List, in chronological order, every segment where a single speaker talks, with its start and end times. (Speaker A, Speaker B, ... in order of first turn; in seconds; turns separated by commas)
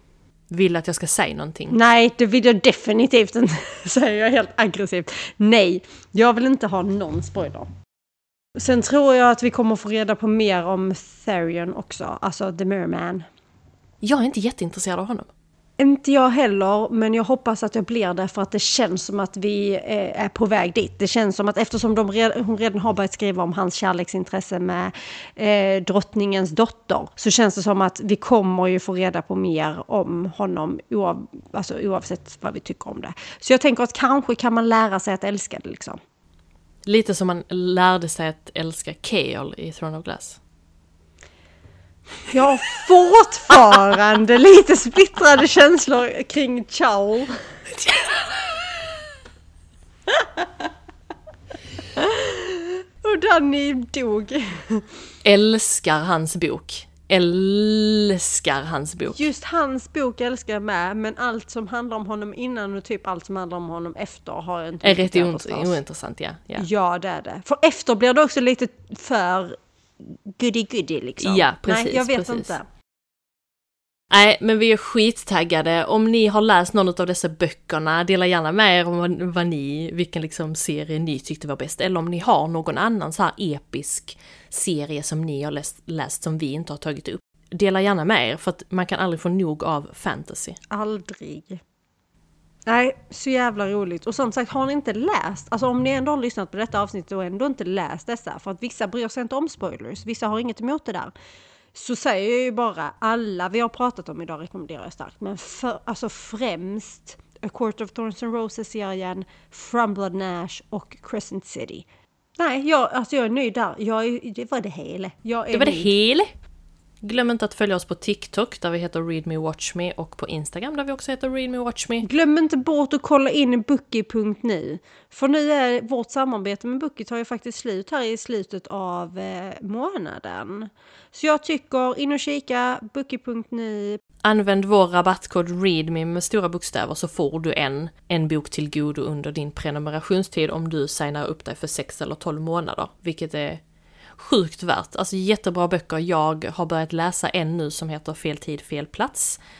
Speaker A: 0.5-1.8, Speaker B: 1.7-7.7, Speaker B: 8.6-13.2, Speaker A: 14.0-15.3, Speaker B: 15.8-36.0, Speaker A: 36.9-40.4, Speaker B: 42.3-47.4, Speaker A: 47.9-48.2, Speaker B: 50.1-50.5, Speaker B: 51.9-54.9, Speaker A: 55.2-59.2, Speaker B: 59.1-65.8, Speaker A: 64.8-66.7, Speaker B: 66.5-72.7, Speaker A: 71.2-72.5, Speaker A: 74.1-90.6, Speaker B: 90.7-91.6, Speaker B: 92.7-101.1, Speaker B: 101.7-111.8, Speaker B: 112.4-115.9, Speaker A: 115.5-116.3, Speaker A: 117.0-122.1, Speaker B: 122.0-134.0, Speaker A: 134.2-143.6, Speaker A: 144.2-149.4